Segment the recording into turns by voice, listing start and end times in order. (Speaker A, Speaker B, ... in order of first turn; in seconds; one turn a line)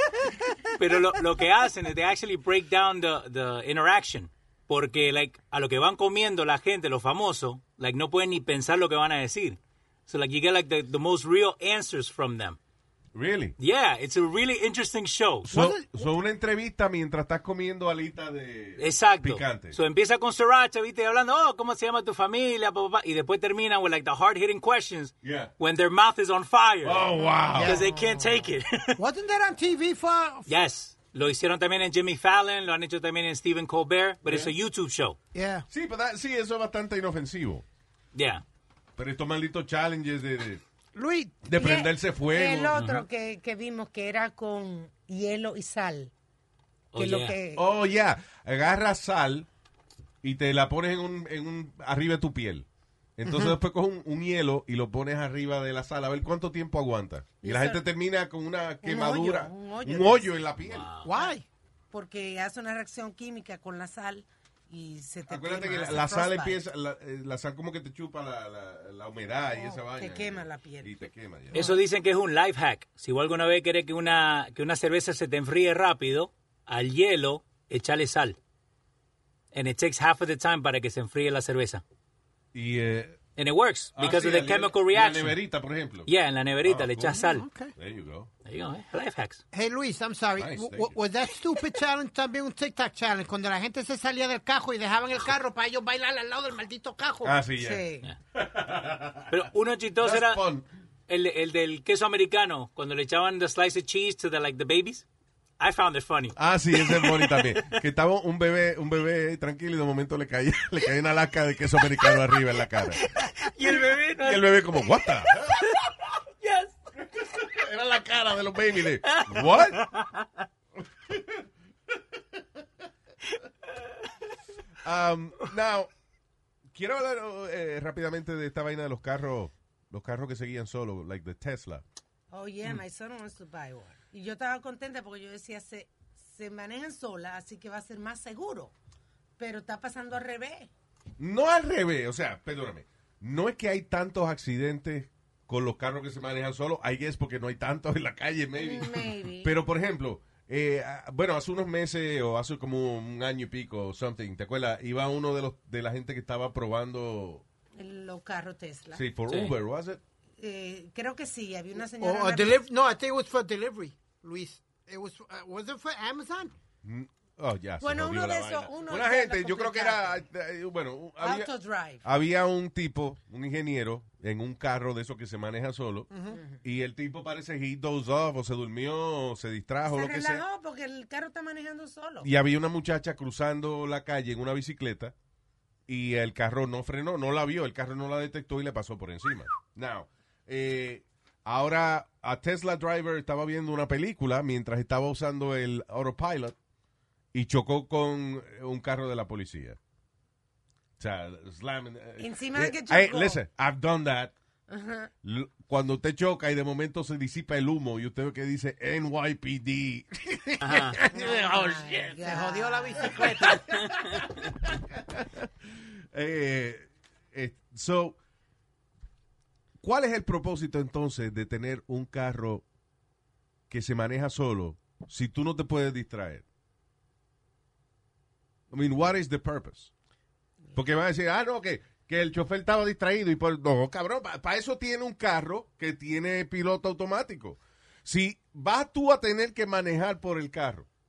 Speaker A: 0.2-0.7
Speaker B: 0.8-12.6
Speaker C: 13.1-13.6
Speaker B: 13.6-15.5
Speaker C: 15.4-19.8
Speaker A: 15.5-16.1
Speaker B: 18.8-27.1
Speaker C: 25.2-25.5
Speaker C: 26.8-27.8
Speaker A: 27.6-27.8
Speaker B: 27.6-29.0
Speaker D: 28.0-28.3
Speaker A: 29.0-30.5
Speaker B: 30.5-35.2
Speaker C: 34.2-34.5
Speaker A: 35.3-35.6
Speaker C: 35.7-37.6
Speaker B: 38.1-38.4
Speaker C: 39.0-40.6
Speaker A: 41.0-41.4
Speaker C: 41.5-42.8
Speaker D: 41.6-46.1
Speaker B: 42.8-43.0
Speaker B: 46.9-47.4
Speaker D: 47.0-47.6
Speaker C: 47.5-49.5
Speaker C: 50.2-60.9
Speaker A: 53.3-53.5
Speaker D: 57.4-57.8
Speaker D: 58.8-60.3
Speaker B: 60.6-61.1
Speaker A: 61.0-61.5
Speaker D: 61.9-66.6
Speaker C: 65.3-71.6
Speaker D: 69.5-71.0
Speaker D: 71.5-71.8
Speaker B: 71.5-78.4
Speaker B: 79.5-81.8
Speaker C: 82.5-83.2
Speaker B: 83.4-85.4
Speaker C: 84.0-86.1
Speaker B: 86.1-87.5
Speaker C: 86.6-87.2
Speaker A: 87.0-87.7
Speaker C: 87.8-88.3
Speaker B: 88.5-89.4
Speaker A: 89.5-97.3
Speaker C: 90.4-91.0
Speaker C: 97.2-99.5
Speaker D: 97.6-98.1
Speaker B: 99.3-100.4
Speaker C: 100.0-100.7
Speaker B: 101.1-105.0
Speaker B: 105.6-107.8
Speaker C: 106.4-113.1
Speaker B: 113.0-116.7
Speaker C: 113.8-115.6
Speaker C: 117.0-119.9
Speaker B: 119.0-120.3
Speaker C: 121.1-121.5
Speaker C: 124.8-125.9
Speaker C: 126.7-131.8
Speaker D: 132.3-138.7
Speaker D: 139.4-140.7
Speaker C: 141.2-157.4
Speaker D: 148.6-149.5
Speaker D: 157.8-159.1
Speaker C: 158.9-160.0
Speaker D: 160.4-162.6
Speaker A: 161.9-166.5
Speaker C: 166.8-171.5
Speaker D: 167.8-170.2
Speaker D: 171.2-172.0
Speaker C: 172.0-180.4
Speaker A: 176.1-176.4
Speaker D: 176.3-176.6
Speaker D: 179.9-182.3
Speaker C: 182.2-185.1
Speaker C: 185.9-196.6
Speaker C: 197.3-199.8
Speaker C: 201.0-204.3
Speaker D: 202.2-203.4
Speaker D: 204.7-205.1
Speaker C: 205.2-212.2
Speaker B: 210.6-211.0
Speaker D: 211.1-213.3
Speaker A: 211.3-211.6
Speaker A: 212.2-213.8
Speaker C: 213.0-218.2
Speaker C: 219.8-222.6
Speaker C: 223.7-226.4
Speaker C: 228.7-229.9
Speaker C: 230.8-240.9